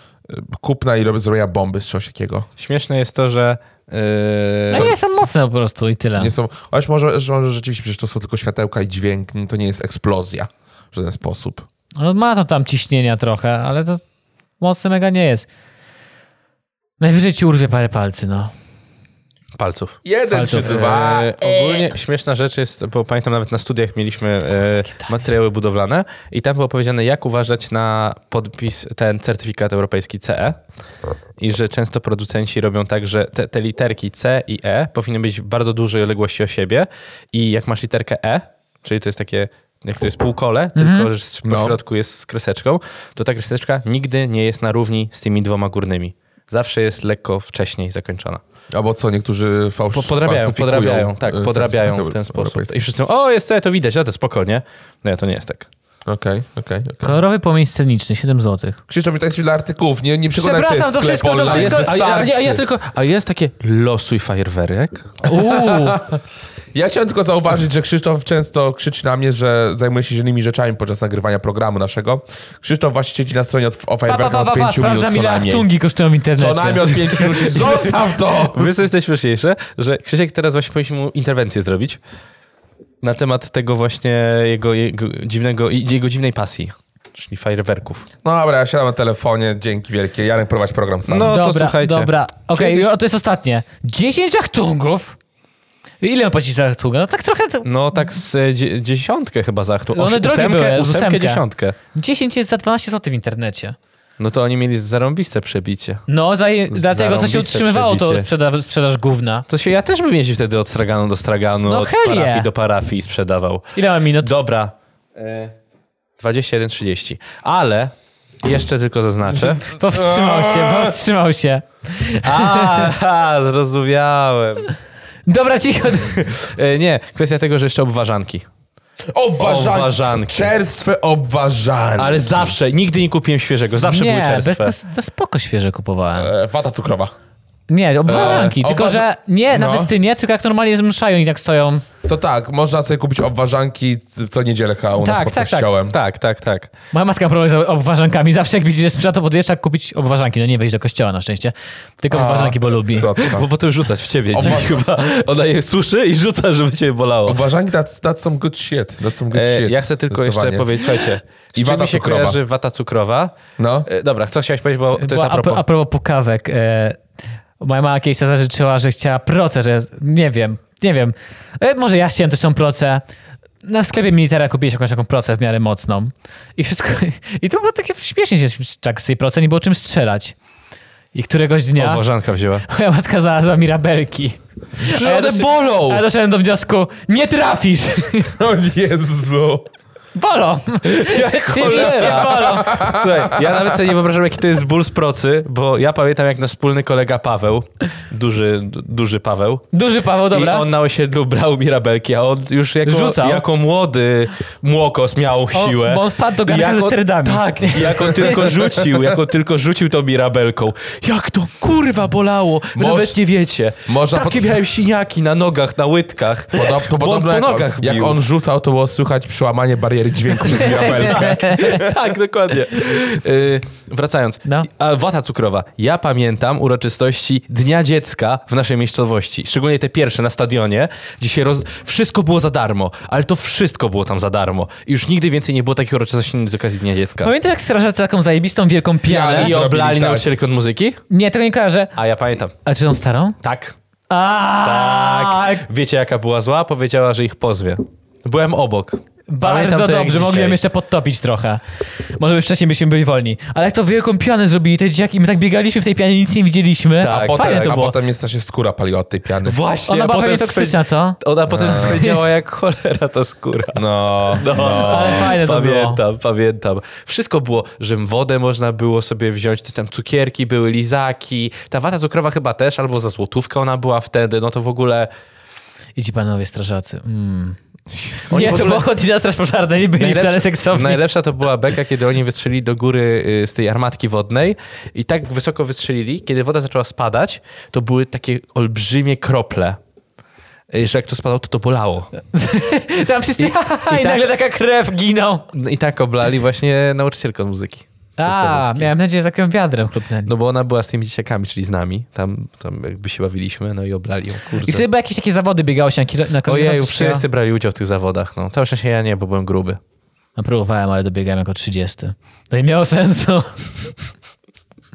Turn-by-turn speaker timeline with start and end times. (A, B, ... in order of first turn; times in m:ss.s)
0:00.3-0:02.5 A
0:02.6-0:04.9 B
0:04.7-0:06.3 C
0:04.7-0:05.1 A
0:06.2-0:11.7 A
0:12.0-0:14.0 C
0:14.6-0:15.5 C
0:17.0-0:18.5 C
0:19.6-0:20.0 B
0:20.0-0:22.0 A
0:20.3-0:20.7 C
0:20.6-0:30.6 B
0:31.4-0:48.4 B
0:40.8-0:41.1 C
0:41.5-0:41.8 A
0:48.7-0:52.8 A
0:49.9-0:55.7 B
0:56.1-0:57.2 A
0:57.0-0:58.8 C
0:58.9-1:02.6 A
1:00.4-1:02.0 C
1:01.4-1:05.2 B
1:05.2-1:06.0 C
1:05.2-1:06.2 A
1:06.7-1:15.7 A
1:14.1-1:17.8 C
1:16.4-1:18.8 A
1:18.5-1:22.0 B
1:23.0-1:28.0 B
1:28.2-1:31.4 A
1:31.1-1:32.9 B
1:31.3-1:35.2 C
1:36.0-1:37.7 C
1:37.6-1:41.8 B
1:39.9-1:41.4 C
1:41.9-1:43.8 C
1:44.2-1:46.1 B
1:46.1-1:49.5 C
1:46.7-1:48.3 B
1:49.5-1:55.5 B
1:51.7-1:52.5 C
1:53.8-1:54.3 C
1:56.2-1:59.7 B
1:59.8-2:02.9 C
1:59.8-2:00.9 A
2:02.2-2:04.7 B
2:05.3-2:06.3 C
2:06.0-2:08.5 B
2:09.1-2:12.6 A
2:09.4-2:10.5 B
2:12.0-2:14.8 B
2:13.8-2:16.3 C
2:16.2-2:17.1 A
2:17.7-2:21.8 C
2:18.1-2:19.9 A
2:22.0-2:26.0 A
2:25.0-2:25.7 C
2:25.9-2:26.7 B
2:26.9-2:33.1 C
2:32.1-2:33.5 A
2:33.2-2:37.4 B
2:34.3-2:34.8 A
2:37.2-2:40.9 A
2:39.3-2:45.6 B
2:41.6-2:42.4 A
2:43.6-2:43.9 A
2:45.0-2:47.0 C
2:47.6-2:53.0 C
2:53.6-3:00.4 C
3:01.1-3:02.0 C
3:01.8-3:02.6 B
3:02.7-3:08.3 C
3:04.8-3:06.0 B
3:08.4-3:09.7 A
3:10.2-3:12.8 C
3:10.9-3:19.7 B
3:11.7-3:13.8 A
3:19.7-3:20.7 C
3:20.3-3:38.2 B
3:22.8-3:23.5 C
3:25.5-3:28.4 C
3:28.5-3:29.0 A
3:32.8-3:33.2 A
3:33.9-3:34.6 A
3:36.5-3:41.9 A
3:40.4-3:41.8 C
3:40.9-3:57.3 B
3:57.2-3:59.5 C
3:59.0-4:00.3 A
3:59.1-4:01.0 B
4:01.1-4:01.9 C
4:02.0-4:02.5 B
4:02.6-4:03.4 C
4:03.4-4:03.8 B
4:04.1-4:05.7 C
4:04.6-4:10.6 B
4:09.3-4:17.9 C
4:17.0-4:17.8 B
4:17.1-4:19.6 A
4:19.4-4:35.1 B
4:19.9-4:22.2 C
4:21.5-4:22.0 A
4:23.8-4:25.4 A
4:24.8-4:26.0 C
4:36.0-4:37.6 C
4:37.9-4:38.6 A
4:38.3-4:38.9 B
4:38.3-4:41.0 C
4:40.0-4:49.8 B
4:50.7-4:52.1 B
4:52.3-4:55.5 C
4:53.4-4:54.2 B
4:55.5-4:58.9 B
4:58.2-5:00.3 C
5:00.3-5:04.8 B
5:04.6-5:07.2 C
5:06.5-5:09.8 B
5:10.4-5:13.9 C